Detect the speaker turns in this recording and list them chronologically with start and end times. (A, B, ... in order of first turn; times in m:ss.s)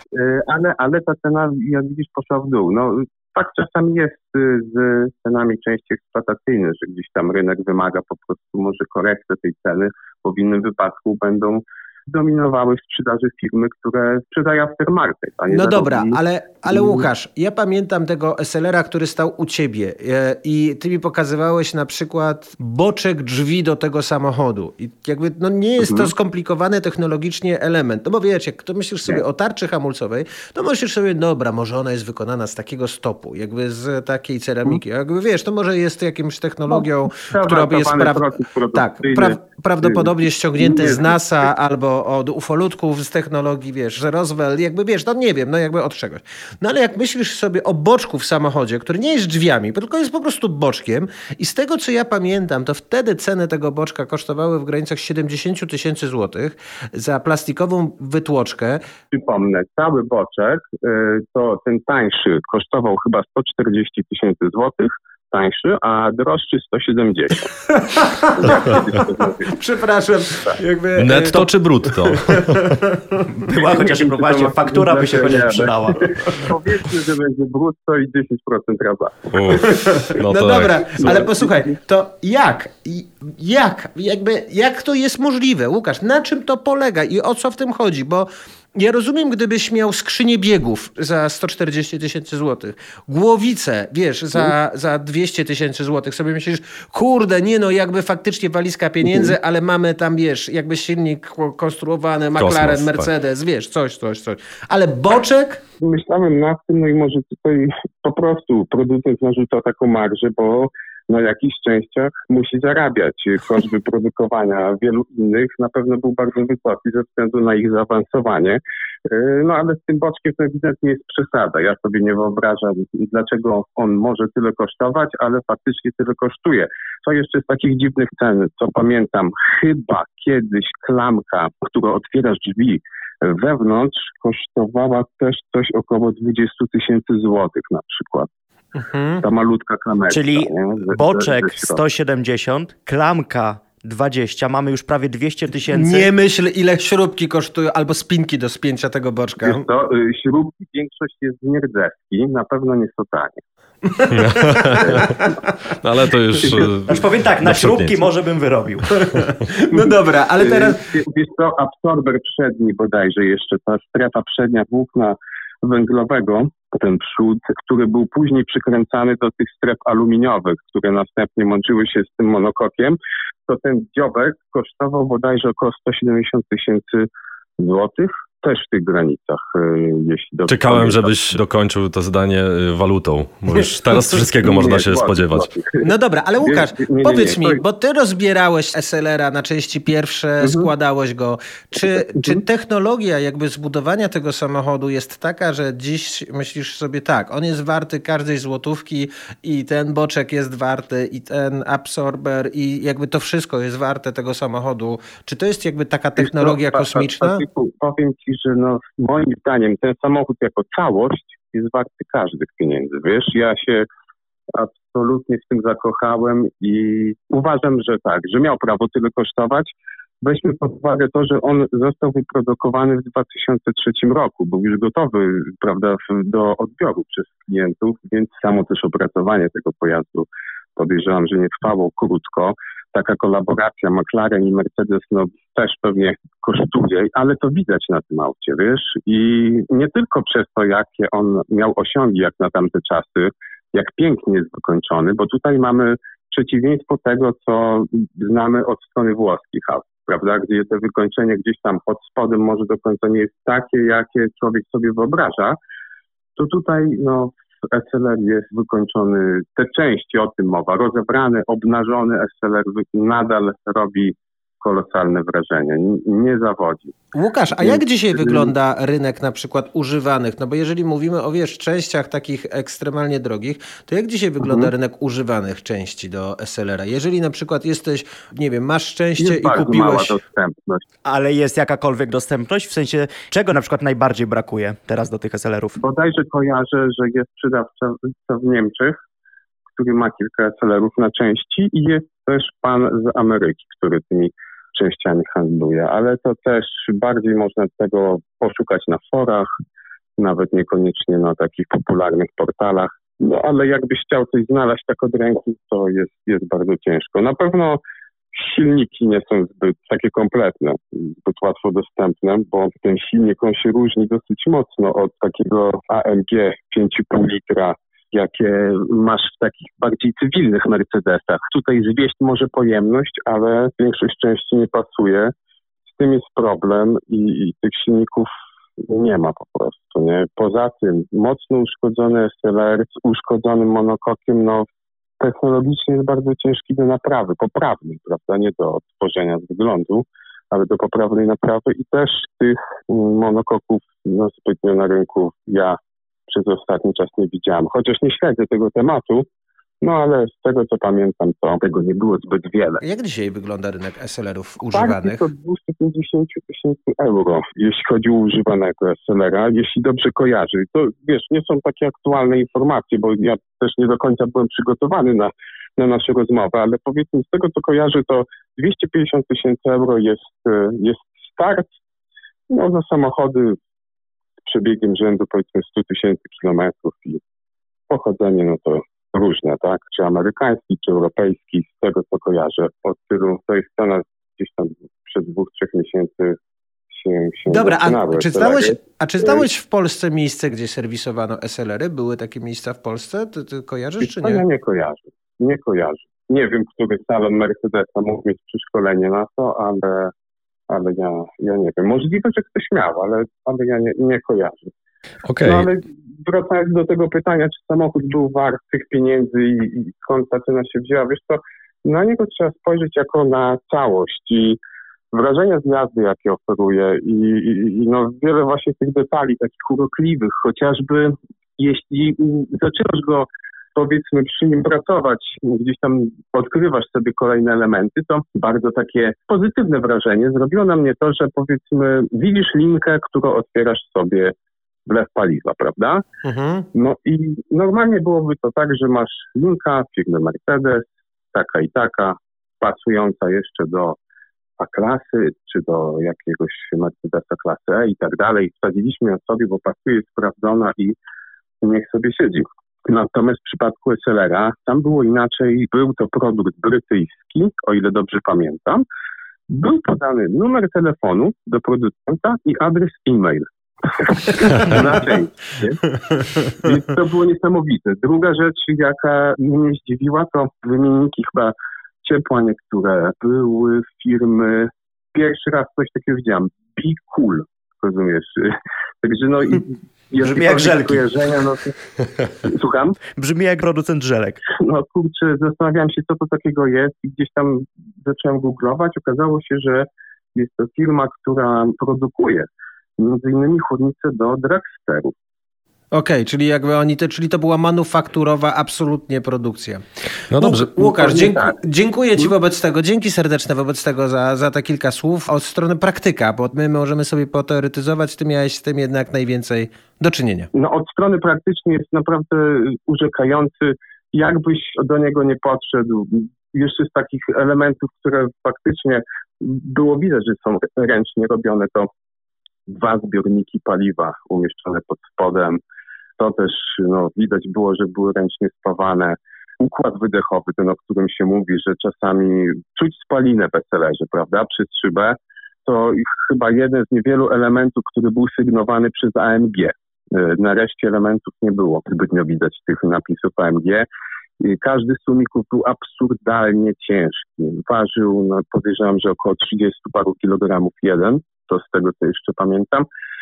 0:00.1-0:17.1 A
0:15.5-0:58.8 B
0:25.8-0:26.1 A
0:36.7-0:41.2 A
0:59.1-1:09.6 A
1:07.7-1:08.8 B
1:09.5-1:13.3 B
1:11.0-1:12.7 C
1:13.4-1:16.2 D
1:13.6-1:20.0 A
1:19.3-1:20.8 C
1:19.5-1:45.6 B
1:21.0-1:21.6 A
1:39.1-1:39.3 A
1:42.4-1:43.1 C
1:45.8-2:18.3 A
2:18.8-2:19.2 B
2:19.2-2:21.8 A
2:20.1-2:26.1 D
2:25.7-2:29.7 B
2:29.4-2:33.4 A
2:33.9-2:35.3 B
2:34.1-2:38.1 C
2:34.7-2:35.4 A
2:36.4-2:36.7 A
2:36.9-2:38.9 D
2:39.0-2:40.8 B
2:39.7-2:57.1 A
2:57.6-3:01.1 A
3:00.5-3:05.5 C
3:03.9-3:05.8 A
3:05.8-3:27.4 B
3:06.4-3:07.6 A
3:10.4-3:10.7 A
3:12.2-3:12.4 A
3:26.2-3:33.9 A
3:34.5-4:15.6 A
4:16.4-4:27.0 A
4:27.1-4:40.2 B
4:27.6-4:28.5 A
4:34.4-4:34.7 A
4:39.2-4:40.8 A
4:41.0-4:45.8 D
4:45.8-4:49.0 A
4:49.8-4:59.5 A
5:00.2-5:07.8 A
5:08.3-5:25.3 A
5:25.9-5:28.3 A
5:28.8-5:34.7 A
5:35.2-5:45.8 A
5:46.3-5:49.2 A
5:49.8-5:52.8 A
5:52.8-5:55.3 B
5:54.7-6:11.8 A
6:12.5-6:13.6 A
6:14.4-6:17.2 A
6:17.9-6:26.4 A
6:26.9-6:29.5 A
6:27.5-6:34.4 B
6:34.0-6:40.1 A
6:40.7-6:44.7 A
6:45.3-6:45.7 C
6:45.4-6:54.6 A
6:55.1-7:14.3 A
7:14.9-7:16.0 A
7:16.2-7:16.7 B
7:16.7-7:24.0 A
7:24.6-7:31.0 A
7:31.6-7:38.8 A
7:39.5-7:45.9 A
7:46.6-8:01.8 A
8:00.2-8:01.0 D
8:02.4-8:03.0 A
8:03.2-8:04.4 D
8:04.6-8:15.1 A
8:15.9-8:30.5 B
8:20.3-8:20.7 C
8:20.8-8:21.6 A
8:30.5-8:41.9 A
8:42.7-8:45.6 A
8:46.2-9:03.9 A
9:04.4-9:12.9 A